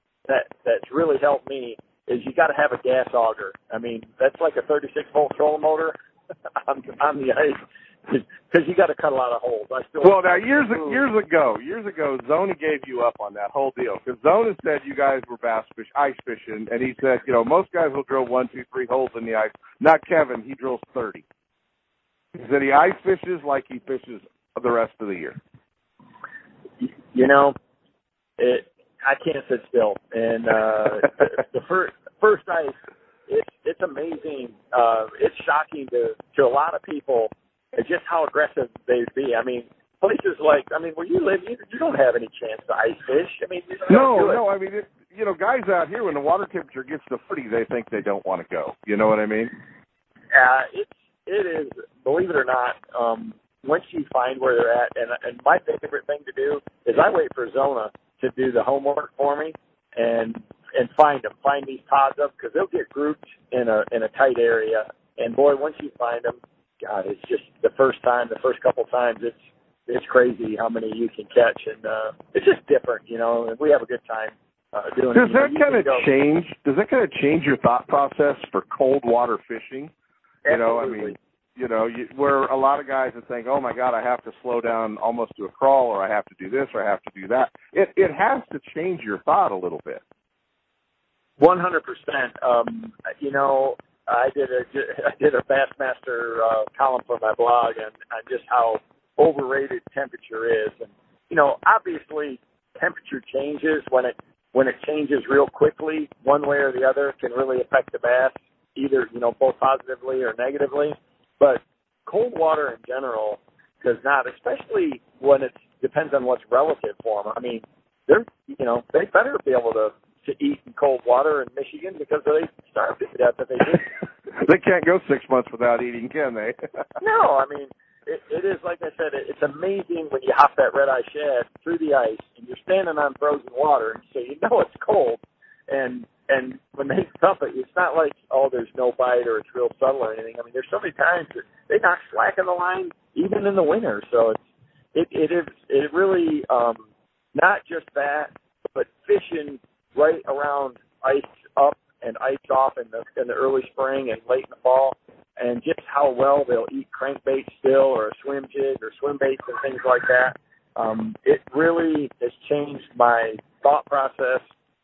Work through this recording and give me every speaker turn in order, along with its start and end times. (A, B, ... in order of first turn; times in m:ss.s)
0:00.3-0:06.0 A
0:06.6-0:11.0 A
0:10.0-0:21.2 B
0:22.4-0:25.4 B
0:26.8-0:27.6 A
0:28.4-0:32.8 A
0:33.3-0:44.4 A
0:43.9-0:49.5 B
0:50.3-1:09.4 A
1:09.9-1:16.1 A
1:15.2-1:19.9 B
1:20.5-1:21.2 A
1:20.5-1:30.0 B
1:31.4-2:03.9 A
2:04.4-2:06.6 B
2:07.0-2:24.4 A
2:24.9-2:26.8 A
2:27.4-2:44.4 A